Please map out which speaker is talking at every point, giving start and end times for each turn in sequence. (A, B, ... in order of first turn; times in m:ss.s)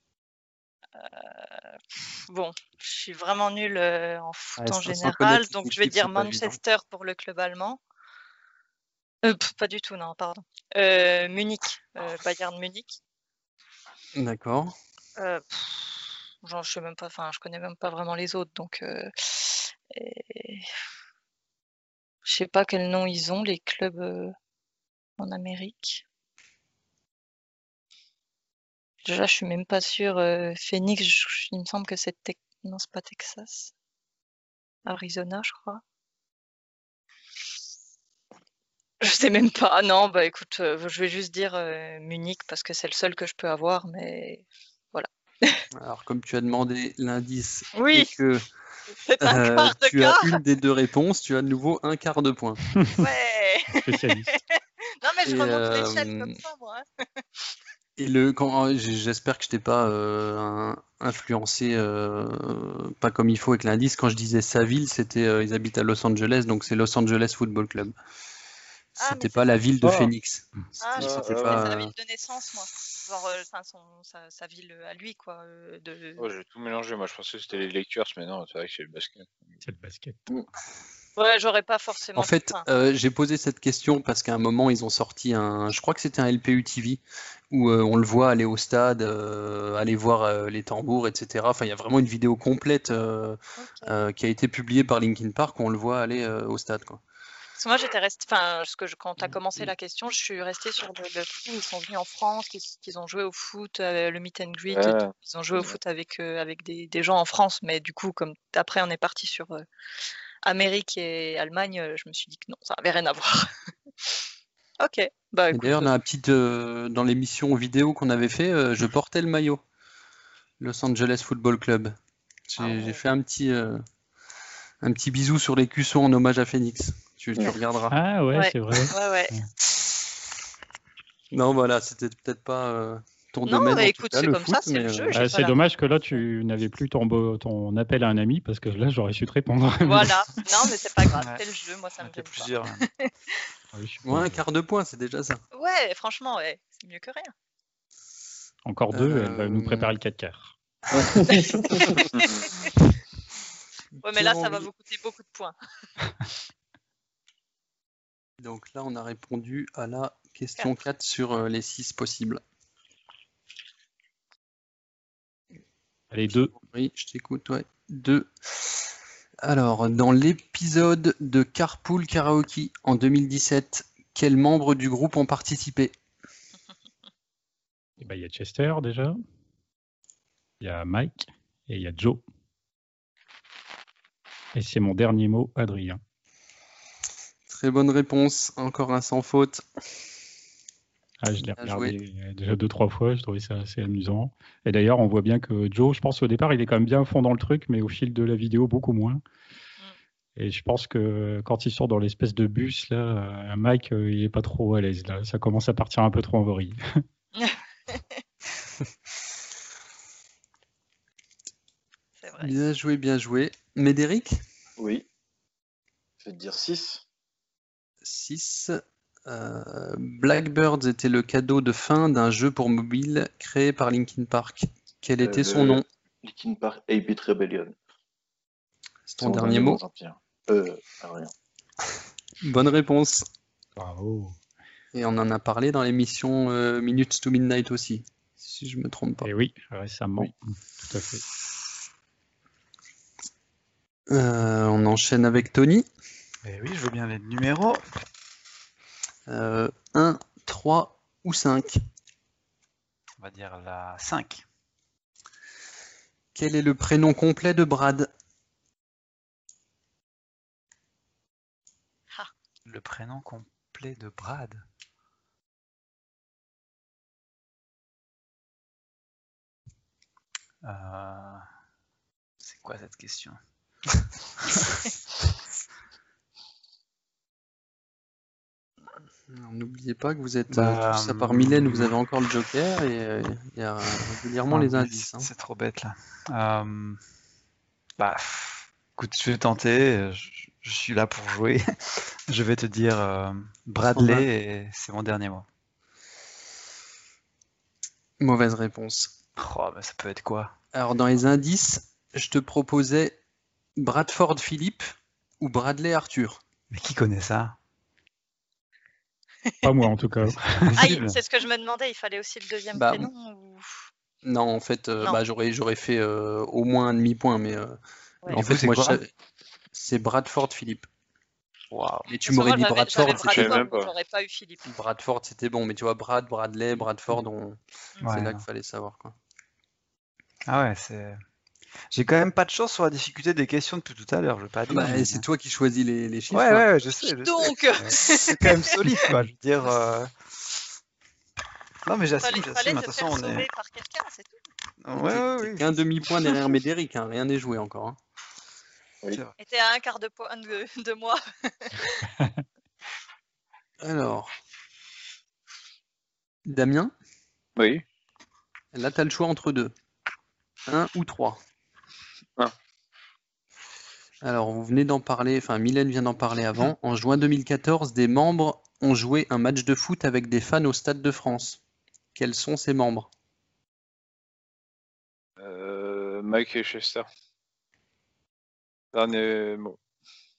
0:01.0-0:07.8 A
0:04.6-0:06.6 B
0:09.2-0:13.0 A
0:14.2-0:14.7 B
0:15.2-0:20.7 A
0:22.2-0:24.3 A
0:25.2-0:26.0 A
0:29.0-0:33.7 A
0:34.9-0:35.8 A
0:39.0-0:45.6 A
0:45.7-0:48.5 B
0:47.8-0:48.1 A
0:49.0-0:50.3 A
0:49.2-0:52.6 B
0:53.0-0:57.2 A
0:53.8-0:54.4 C
0:55.3-0:56.4 B
0:58.0-1:08.0 B
1:09.0-1:11.9 B
1:09.0-1:09.6 A
1:09.8-1:10.1 D
1:10.8-1:16.3 A
1:11.0-1:11.7 D
1:16.2-1:19.5 D
1:19.6-1:20.3 C
1:21.2-1:22.6 A
1:22.2-1:37.0 B
1:33.6-1:33.9 A
1:37.6-1:49.6 A
1:44.7-1:45.1 D
1:50.4-1:53.5 A
1:54.8-1:55.9 A
1:55.5-1:59.6 B
2:00.6-2:02.0 B
2:02.5-2:03.8 B
2:02.6-2:03.0 A
2:04.8-2:08.0 B
2:07.9-2:09.4 C
2:08.3-2:09.3 A
2:11.3-2:15.3 B
2:13.5-2:15.6 A
2:15.1-2:20.2 C
2:19.8-2:23.1 A
2:21.1-2:21.4 E
2:22.0-2:22.9 E
2:23.7-2:24.4 C
2:24.0-2:25.4 B
2:25.5-2:27.3 A
2:28.6-2:30.6 C
2:28.9-2:29.9 B
2:30.9-2:31.4 B
2:30.9-2:31.9 F
2:31.3-2:32.7 A
2:34.0-2:34.7 B
2:34.0-2:35.6 A
2:38.4-2:42.4 B
2:46.1-2:46.5 C
2:46.3-2:48.9 B
2:49.4-2:55.9 B
2:58.0-2:59.2 C
3:00.6-3:02.2 C
3:04.5-3:06.0 C
3:07.5-3:09.6 B
3:11.2-3:19.2 C
3:11.5-3:12.0 B
3:20.4-3:26.8 C
3:27.4-3:28.2 A
3:32.2-3:32.5 A
3:32.4-3:34.4 B
3:34.8-3:35.1 F
3:36.2-3:37.0 F
3:38.0-3:45.8 B
3:45.2-3:47.8 F
3:49.1-3:49.8 B
3:49.2-3:51.3 F
3:52.4-3:53.3 B
3:53.8-3:54.4 C
3:54.9-3:59.3 B
3:59.2-4:01.2 C
4:04.1-4:05.9 B
4:06.4-4:07.8 E
4:09.3-4:11.8 B
4:13.2-4:14.4 E
4:16.4-4:18.1 B
4:22.6-4:24.6 E
4:30.6-4:31.4 E
4:32.4-4:33.4 E
4:34.5-4:34.8 E
4:39.3-4:45.3 B
4:40.5-4:41.9 E
4:44.5-4:47.0 E
4:48.0-4:55.5 E
4:53.9-4:54.3 B
4:58.2-4:59.1 B
4:59.4-5:00.5 E
5:00.7-5:03.2 B
5:03.8-5:06.4 B
5:06.7-5:07.6 E
5:09.6-5:10.9 C
5:10.4-5:11.2 E
5:10.8-5:13.9 A
5:12.8-5:13.1 B
5:14.2-5:17.8 B
5:18.3-5:19.0 E
5:18.3-5:19.1 B
5:19.7-5:20.9 B
5:21.7-5:22.1 E
5:22.1-5:23.6 B
5:22.2-5:24.7 A
5:23.1-5:23.9 D
5:24.6-5:29.2 B
5:28.0-5:28.4 E
5:30.5-5:31.2 E
5:31.9-5:35.2 E
5:34.7-5:36.7 B
5:36.3-5:40.1 E
5:37.1-5:38.9 A
5:41.9-5:43.5 E
5:42.2-5:44.4 A
5:44.8-5:45.7 E
5:45.0-5:48.0 B
5:49.4-5:52.1 A
5:53.8-5:54.3 B
5:56.5-5:56.9 B
5:57.6-5:57.8 D
5:58.7-5:59.7 B
6:00.7-6:01.4 B
6:04.2-6:11.6 B
6:12.2-6:13.1 B
6:15.4-6:17.1 D
6:18.9-6:19.8 D